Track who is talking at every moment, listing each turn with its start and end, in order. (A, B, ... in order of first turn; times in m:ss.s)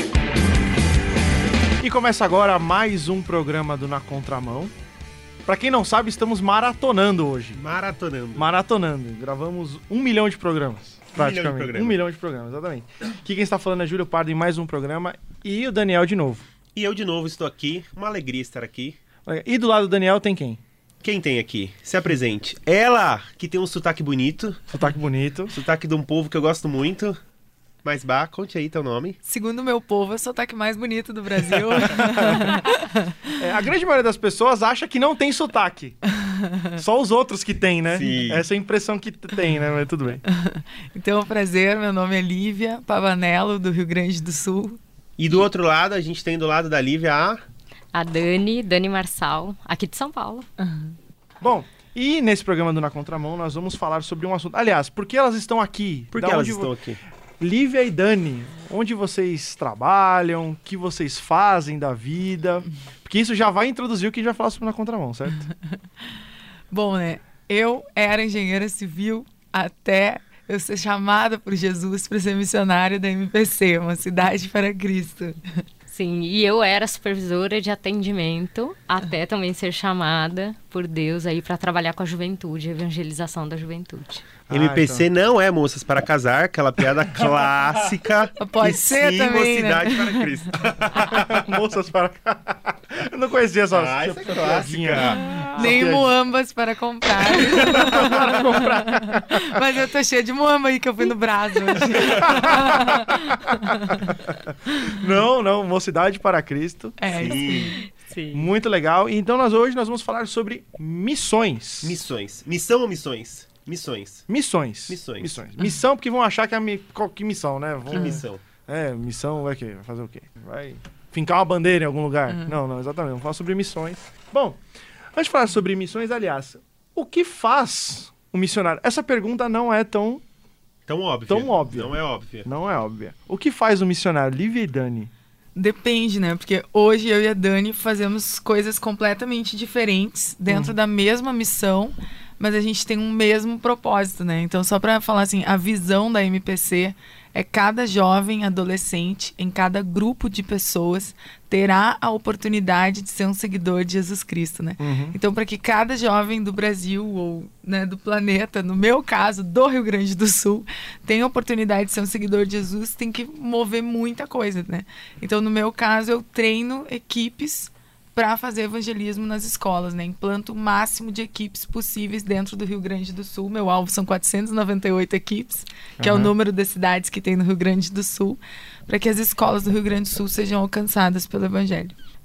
0:01.8-0:04.7 A
0:05.4-0:07.6 A
0:07.5-0:08.5 B
0:08.4-0:16.4 A
0:11.1-0:12.0 B
0:16.8-0:19.0 B
0:19.2-0:20.6 A
0:21.0-0:24.7 B
0:24.7-0:25.5 A
0:25.5-0:27.2 B
0:27.8-0:29.2 B
0:29.2-0:33.3 C
0:31.8-0:32.6 A
0:33.4-0:36.0 A
0:36.8-0:40.2 A
0:37.9-0:38.4 B
0:40.3-0:44.8 C
0:45.2-0:47.4 B
0:47.9-0:50.5 D
0:50.6-0:50.9 C
0:51.4-0:56.7 A
0:56.1-0:57.0 B
0:57.4-1:05.4 A
1:06.7-1:15.4 C
1:15.9-1:24.2 D
1:24.5-1:25.0 A
1:24.5-1:31.5 B
1:28.4-1:30.3 C
1:31.0-1:36.1 A
1:33.7-1:35.5 B
1:35.3-1:44.0 C
1:37.4-1:39.6 A
1:41.8-1:47.3 A
1:47.0-1:47.8 C
1:47.1-1:47.8 B
1:47.9-1:48.5 D
1:48.3-1:52.0 A
1:51.8-1:54.3 B
1:54.3-2:04.6 A
1:54.9-1:55.4 B
1:57.9-1:58.4 B
2:05.1-2:10.2 A
2:10.9-2:12.5 B
2:11.3-2:15.1 A
2:15.5-3:01.9 C
2:20.5-2:20.7 A
2:34.8-2:35.2 A
2:56.0-2:56.3 A